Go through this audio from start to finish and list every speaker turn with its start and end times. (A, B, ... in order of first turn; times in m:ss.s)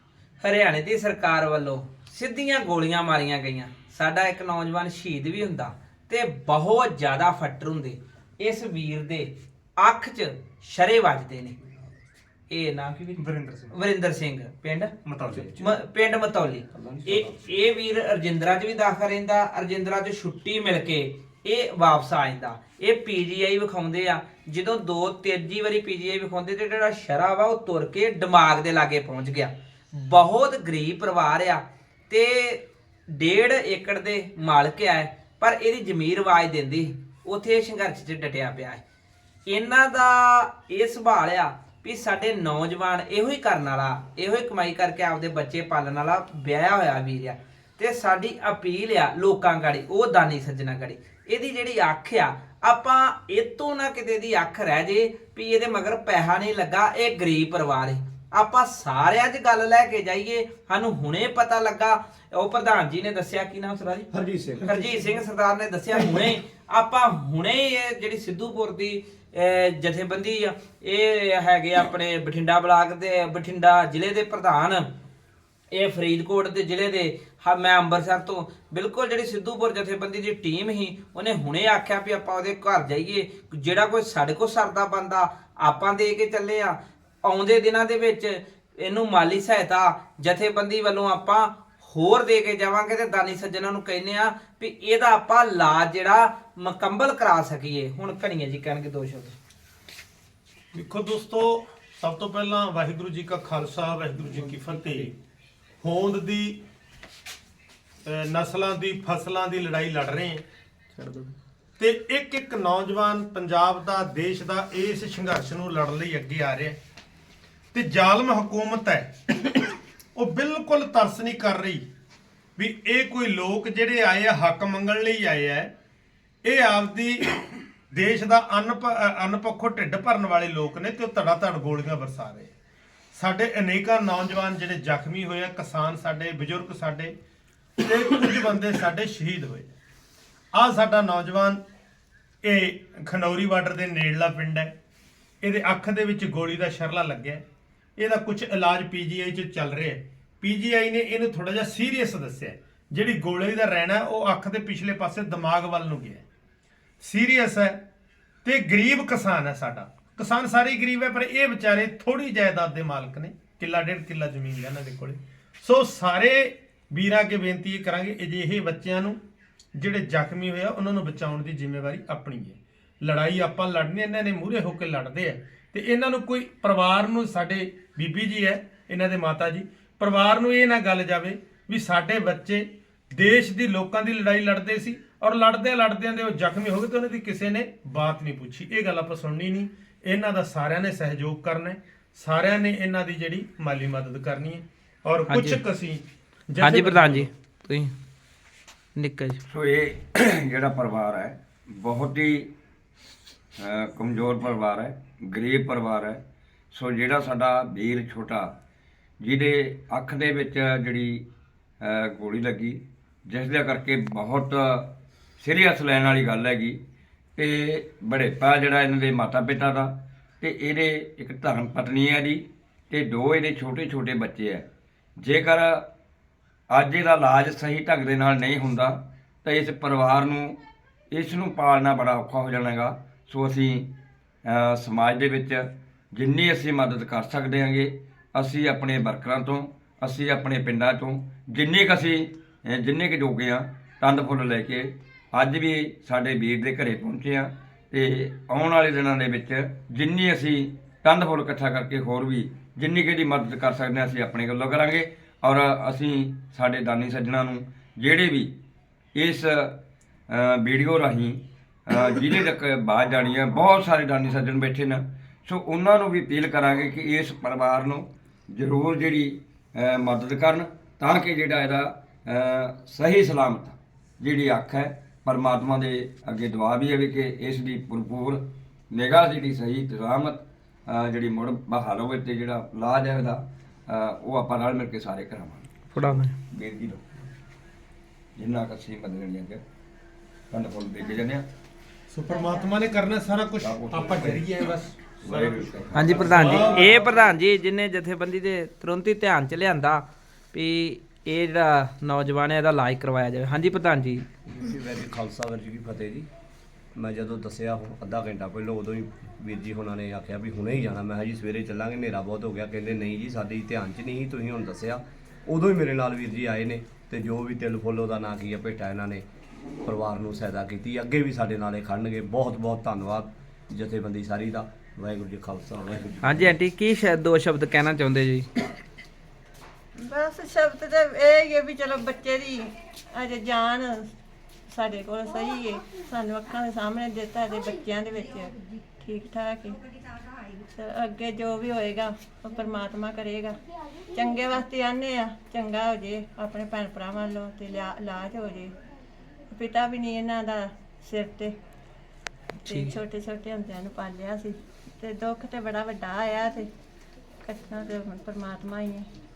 0:00.4-0:11.5 A
0:12.5-0:14.9 A
0:13.2-0:13.7 B
0:15.0-0:15.4 B
0:15.3-0:15.8 C
0:15.6-0:38.8 A
0:16.7-0:17.4 C
0:39.4-1:04.1 A
1:04.1-1:05.2 C
1:04.6-1:14.9 A
1:06.0-1:06.3 C
1:15.7-1:39.3 A
1:40.7-1:45.1 B
1:45.8-1:46.6 B
1:48.0-1:50.4 B
1:51.0-1:51.3 A
1:51.8-1:56.8 B
1:57.7-2:01.8 B
2:02.6-2:05.7 B
2:06.4-2:12.5 B
2:13.1-2:17.1 B
2:17.8-2:19.8 B
2:20.5-2:21.6 B
2:22.4-2:24.7 B
2:25.4-2:27.4 B
2:28.0-2:36.2 B
2:37.0-2:37.8 B
2:38.4-2:49.2 B
2:49.7-3:17.3 B
3:15.3-3:15.6 A
3:16.6-3:17.9 A
3:19.0-3:19.4 A
3:19.5-3:22.5 D
3:23.6-3:26.2 D
3:26.7-3:28.5 D
3:29.2-3:31.2 D
3:31.8-3:36.8 D
3:37.4-3:44.6 D
3:45.2-3:45.8 D
3:46.7-3:50.6 D
3:51.1-3:53.9 D
3:54.4-4:18.5 D
4:19.2-4:19.8 D
4:20.3-4:47.0 D
4:45.9-4:46.3 A
4:48.4-4:49.6 D
4:50.5-4:51.5 D
4:52.1-4:56.9 B
4:53.6-4:54.4 D
4:55.2-4:56.6 D
4:55.9-5:04.2 A
5:04.5-5:06.3 C
5:06.9-5:19.2 C
5:19.8-5:26.5 C
5:26.2-5:28.5 A
5:30.0-5:34.1 E
5:34.7-5:39.8 E
5:40.7-5:43.6 E
5:44.1-5:48.7 E
5:49.5-5:51.5 E
5:52.6-5:52.9 A
5:52.6-5:56.7 E
5:57.4-5:59.1 E